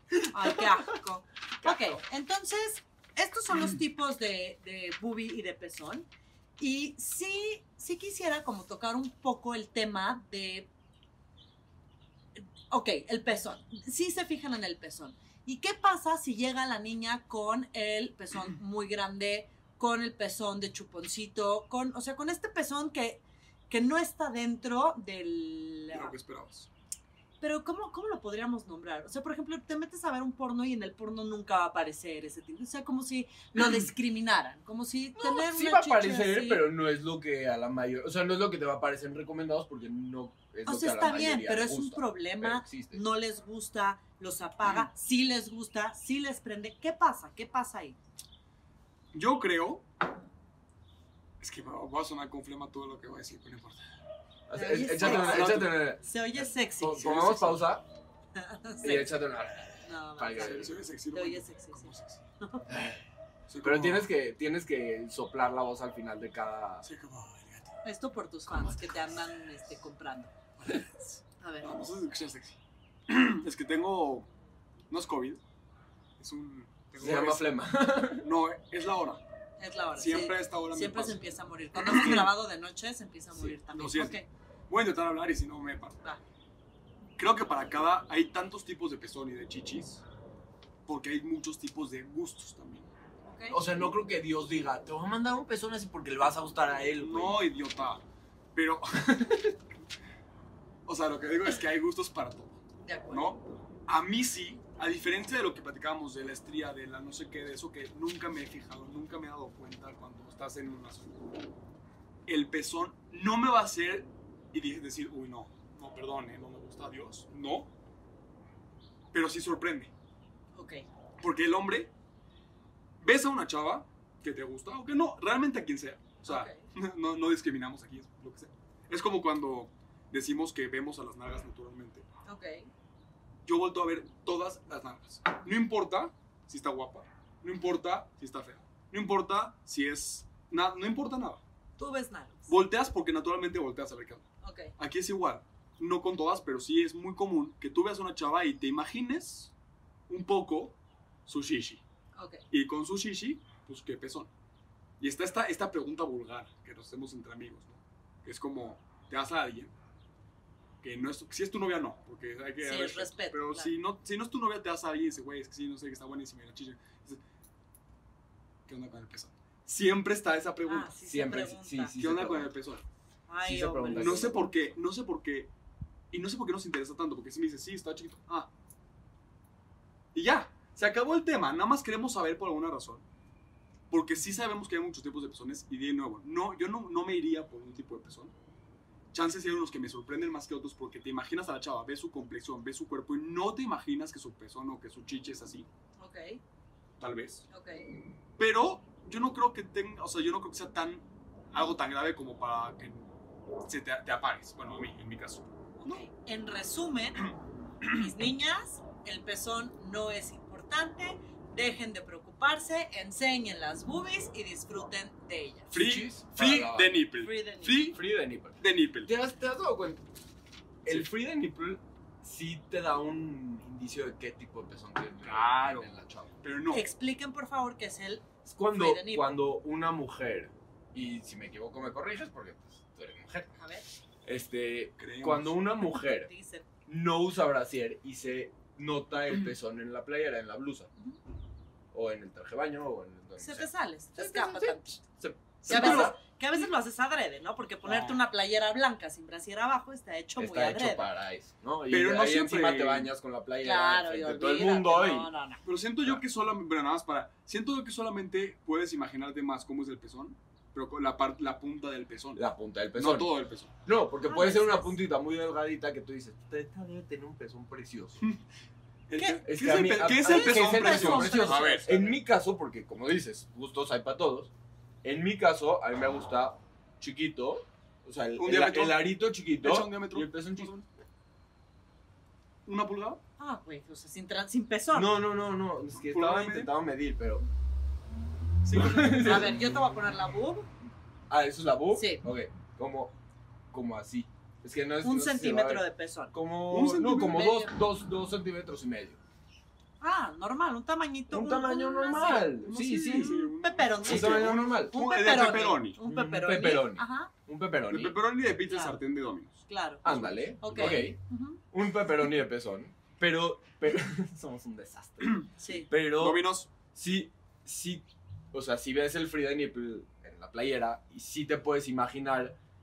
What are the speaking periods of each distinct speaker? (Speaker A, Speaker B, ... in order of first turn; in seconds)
Speaker A: 0.2-10.7, 12.3-26.1, 27.4-36.7, 40.6-48.0, 54.5-57.2, 58.3-59.2, 59.8-62.7, 67.8-70.3, 71.4-71.7, 79.6-84.3, 93.2-93.6, 102.8-103.4, 120.5-120.9, 126.2-126.6, 132.2-132.7, 141.8-142.5, 144.4-144.7, 152.2-152.4, 162.6-163.7, 170.7-171.9, 173.3-174.3, 196.0-196.4, 197.5-197.8, 205.8-207.3, 207.8-215.7, 217.2-218.0, 226.7-229.3, 233.6-233.8, 236.1-236.7, 243.4-245.0, 245.6-251.1, 253.6-255.6, 264.2-264.9, 269.2-269.4, 270.2-272.0, 283.4-285.1, 289.1-290.7, 291.9-292.2, 295.0-296.3, 297.2-297.7, 300.0-307.3, 308.7-309.0, 309.7-311.6, 315.6-315.9
Speaker B: 25.9-26.7, 49.1-49.9, 51.4-53.8, 55.0-55.7, 56.9-57.6, 60.3-62.2, 63.5-64.1, 66.8-67.8, 70.6-74.3, 74.9-75.4, 76.2-77.5, 78.2-79.2, 80.0-82.3, 83.3-86.0, 87.2-90.0, 90.8-92.9, 97.0-99.2, 100.8-111.2, 112.3-117.7, 119.1-119.9, 121.2-121.9, 123.0-132.1, 133.4-141.4, 142.5-144.2, 144.8-149.5, 150.1-151.8, 152.5-154.3, 155.0-159.7, 160.8-167.2, 168.7-170.9, 172.0-172.8, 173.9-175.5, 176.1-178.5, 180.1-183.0, 183.9-188.3, 189.1-195.7, 197.0-197.4, 198.4-203.1, 203.6-206.1, 215.7-218.0, 218.6-219.1, 225.2-226.9, 235.0-235.6, 245.7-246.2, 247.8-248.2, 251.9-253.1, 255.6-263.7, 269.1-272.1, 278.4-280.9, 282.6-283.2, 285.9-286.7, 288.6-289.5, 296.7-297.6, 302.6-306.0, 307.9-311.0, 315.2-316.7
Speaker C: 35.1-43.0, 54.5-57.8, 58.8-60.7, 62.7-63.0, 63.6-66.9, 68.5-69.3, 77.0-78.2, 93.5-97.4, 99.0-99.5, 171.0-172.5, 173.4-174.8, 215.7-217.0, 217.9-220.0, 220.8-226.3, 228.4-233.5, 234.2-236.3, 236.9-240.9, 241.9-246.2, 250.3-255.3, 262.4-263.3, 263.8-268.2, 269.4-274.5, 275.0-280.7, 284.9-287.5, 288.7-289.7, 291.3-293.1, 293.7-299.2, 301.3-303.4, 304.0-304.9, 306.0-308.1, 310.0-311.2, 311.7-322.6